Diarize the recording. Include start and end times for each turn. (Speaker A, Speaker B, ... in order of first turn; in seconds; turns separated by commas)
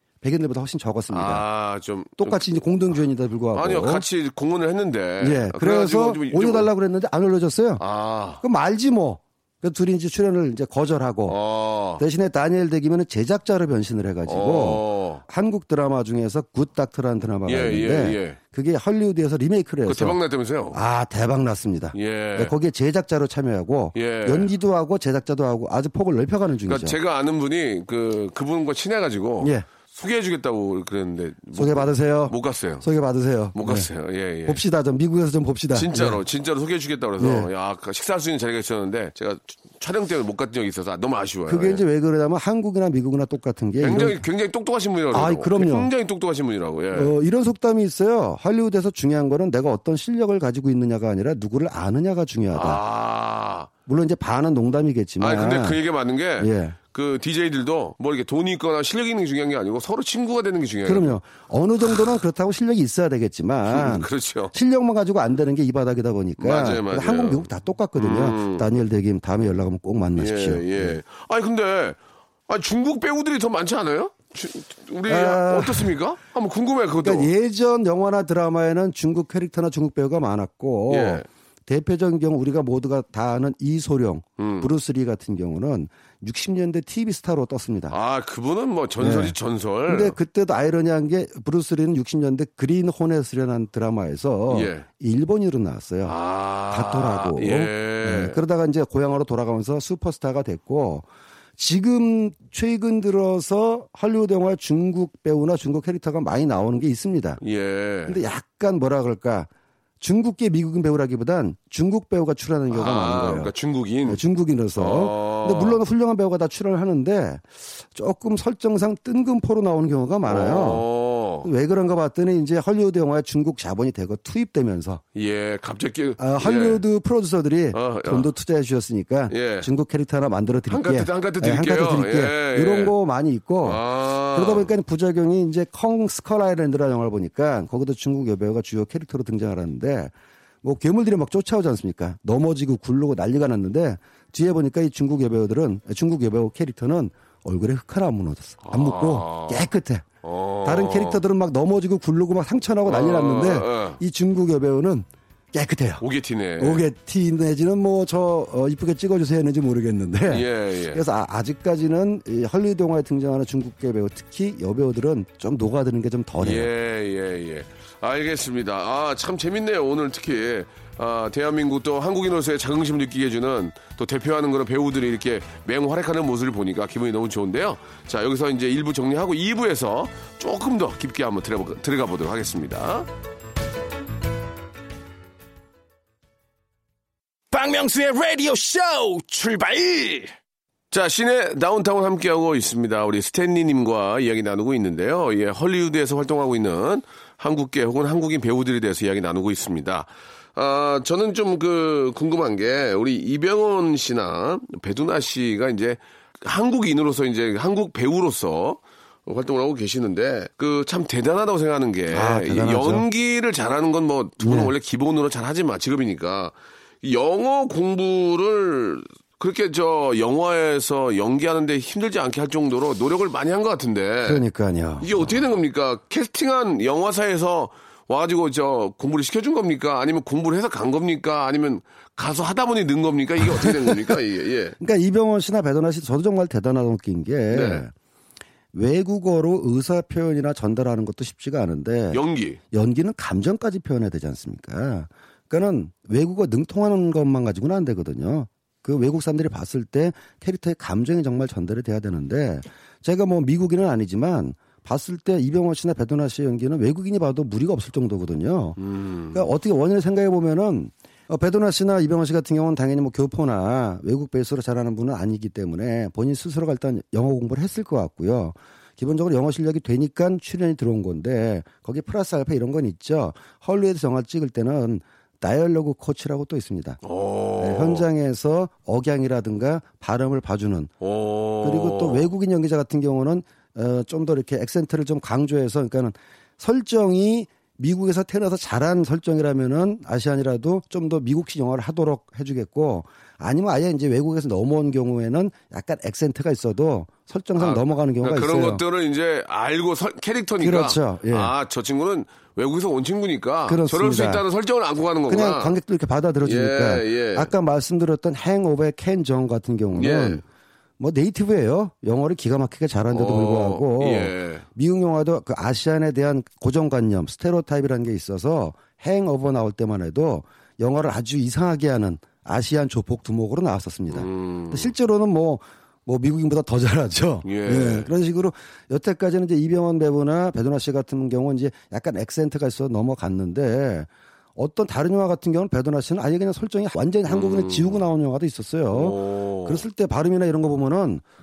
Speaker A: 0.2-1.4, Speaker B: 1.1-2.5, Speaker A: 2.2-4.0, Speaker B: 3.5-6.7, Speaker A: 5.2-7.8, Speaker B: 7.8-8.4, Speaker A: 8.4-11.4, Speaker B: 11.3-12.0, Speaker A: 12.0-20.2, Speaker B: 14.3-15.2, Speaker B: 17.5-18.4, Speaker B: 19.9-20.8, Speaker A: 20.7-27.0, Speaker B: 21.9-22.5, Speaker B: 23.9-24.5, Speaker B: 26.7-32.9, Speaker A: 29.4-29.7, Speaker A: 31.6-33.9, Speaker B: 33.5-34.6, Speaker A: 34.4-36.2, Speaker B: 35.7-41.8, Speaker A: 37.2-37.5, Speaker A: 41.5-44.2, Speaker B: 43.8-47.1, Speaker A: 45.1-45.9, Speaker A: 46.9-52.8, Speaker B: 52.5-53.7, Speaker A: 53.9-55.8, Speaker B: 55.2-61.2, Speaker A: 56.4-56.8, Speaker A: 60.9-71.0, Speaker B: 61.9-62.2, Speaker B: 63.7-64.5, Speaker B: 66.4-68.7, Speaker B: 70.2-77.3, Speaker A: 75.1-75.9, Speaker A: 77.0-88.0, Speaker B: 80.9-81.3, Speaker B: 84.4-84.7, Speaker B: 87.9-90.2, Speaker A: 89.0-89.4, Speaker A: 89.9-96.2, Speaker B: 94.5-94.9, Speaker B: 96.0-98.4, Speaker A: 96.7-101.1, Speaker A: 101.6-107.4, Speaker B: 107.4-108.2, Speaker A: 108.1-109.5, Speaker A: 110.0-113.5, Speaker B: 112.7-114.2, Speaker A: 114.1-120.8, Speaker B: 114.8-115.8, Speaker B: 120.3-121.5, Speaker A: 121.4-125.0, Speaker B: 125.2-126.8, Speaker A: 126.2-150.1, Speaker B: 127.7-128.3, Speaker B: 129.3-129.7, Speaker B: 130.7-132.9, Speaker B: 133.6-134.7, Speaker B: 148.6-149.7, Speaker B: 150.2-151.2, Speaker A: 150.6-156.0, Speaker B: 152.9-154.0, Speaker B: 156.0-156.8, Speaker A: 156.6-166.7, Speaker B: 160.3-161.0, Speaker B: 166.4-183.1, Speaker C: 187.5-190.3, Speaker B: 190.9-224.4, Speaker A: 212.1-213.1, Speaker A: 214.4-214.7, Speaker A: 224.3-225.3, Speaker B: 225.0-234.8, Speaker A: 233.4-234.2, Speaker A: 234.8-237.9, Speaker B: 237.5-237.8, Speaker A: 238.7-258.8, Speaker B: 242.1-242.6, Speaker B: 258.8-259.5, Speaker A: 259.3-277.0, Speaker B: 277.0-278.1, Speaker A: 277.6-280.9, Speaker B: 281.0-282.3, Speaker A: 281.6-298.8, Speaker B: 297.6-305.7, Speaker A: 300.6-301.5, Speaker A: 303.7-304.4, Speaker A: 305.3-310.4, Speaker B: 306.4-307.5, Speaker B: 309.9-310.4, Speaker A: 311.0-341.2, Speaker B: 313.1-314.7, Speaker B: 324.1-324.9, Speaker B: 327.4-328.1, Speaker B: 337.3-338.0, Speaker B: 338.9-339.8